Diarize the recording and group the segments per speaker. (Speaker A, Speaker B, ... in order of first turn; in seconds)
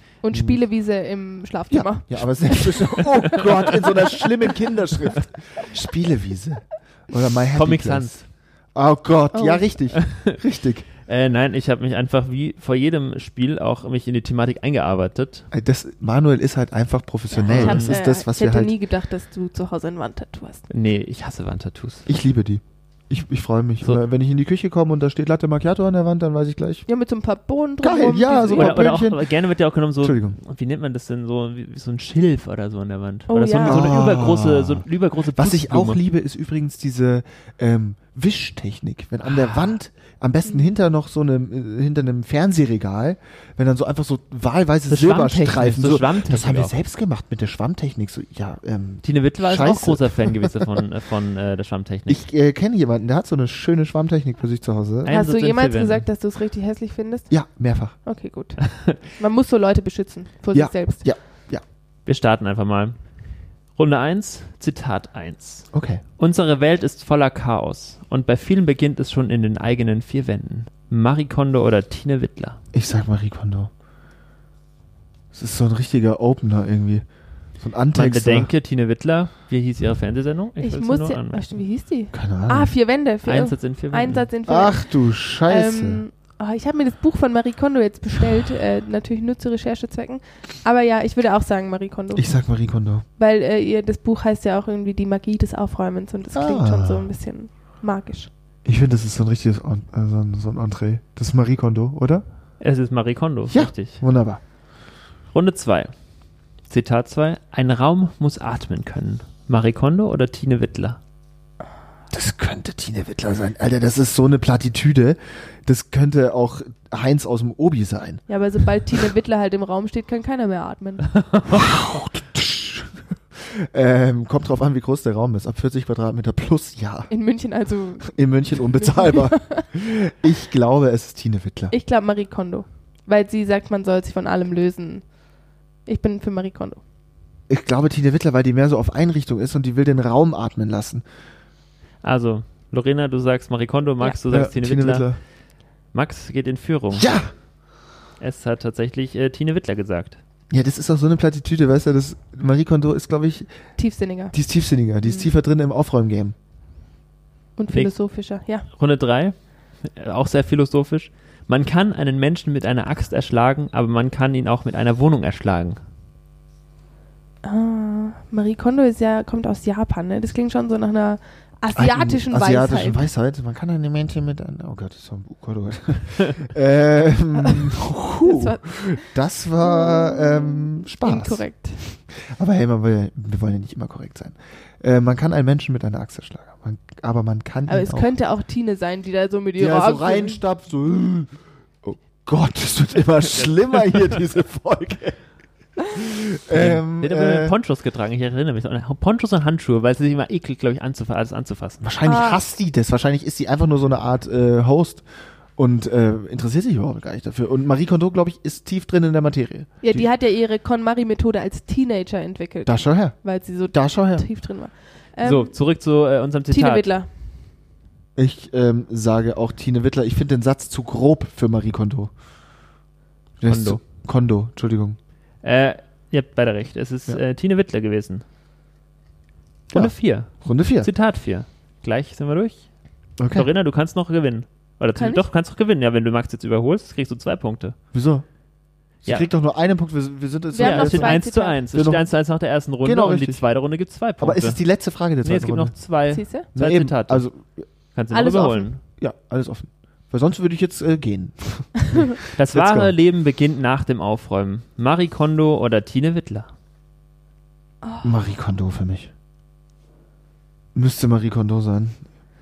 Speaker A: 0.2-4.2, 9.3-9.7, 17.3-20.6, 26.9-28.8, 33.3-33.9, 40.5-40.7, 55.1-57.3, 58.0-61.0, 80.5-92.2, 93.2-98.3, 118.3-121.1, 127.1-129.7, 131.7-135.1, 135.8-136.8, 153.8-154.3, 155.0-155.3, 157.6-158.7, 167.4-173.0, 178.2-179.1, 179.6-181.8, 187.7-190.4, 202.0-202.4, 209.8-215.5, 216.5-217.1, 234.9-235.2, 240.5-241.6, 246.1-246.5, 248.1-248.7, 257.8-258.2
Speaker B: 0.3-0.6, 1.7-10.9, 15.5-18.7, 22.1-26.9, 27.8-29.2, 30.0-30.4, 33.6-34.8, 35.4-50.5, 52.1-55.1, 57.3-58.0, 60.5-61.6, 65.7-66.0, 72.7-73.7, 75.3-77.0, 77.6-78.5, 82.1-82.7, 84.5-86.0, 92.1-93.0, 96.3-97.1, 98.6-102.2, 103.5-104.4, 112.1-118.2, 121.5-127.1, 128.0-131.7, 137.5-141.0, 144.3-145.2, 147.0-147.3, 150.5-153.5, 154.3-156.3, 171.8-188.1, 189.6-195.2, 195.8-197.5, 201.8-205.0, 205.6-210.1, 212.7-214.2, 218.2-222.1, 223.4-225.0, 229.7-230.9, 233.2-233.5, 237.9-238.2, 239.0-241.2, 241.7-242.1, 242.8-243.4, 244.2-245.7, 246.5-247.7, 249.0-252.9, 258.0-259.1, 260.7-262.0
Speaker C: 7.5-8.3, 9.9-10.3, 11.1-15.4, 17.5-18.0, 20.7-22.1, 28.5-36.0, 39.2-39.7, 44.9-46.7, 49.0-52.2, 55.0-56.0, 58.6-58.9, 62.0-63.0, 63.7-72.6, 77.9-81.6, 83.2-84.3, 102.6-104.0, 105.3-105.9, 106.7-111.0, 121.2-121.6, 142.0-145.3, 145.9-147.2, 148.2-150.2, 157.7-158.0, 158.7-165.8, 193.3-194.1, 196.5-201.8, 215.2-216.9, 223.5-223.8, 225.4-228.2, 229.7-232.7, 233.3-237.8, 240.6-247.2, 247.9-248.8, 252.3-256.5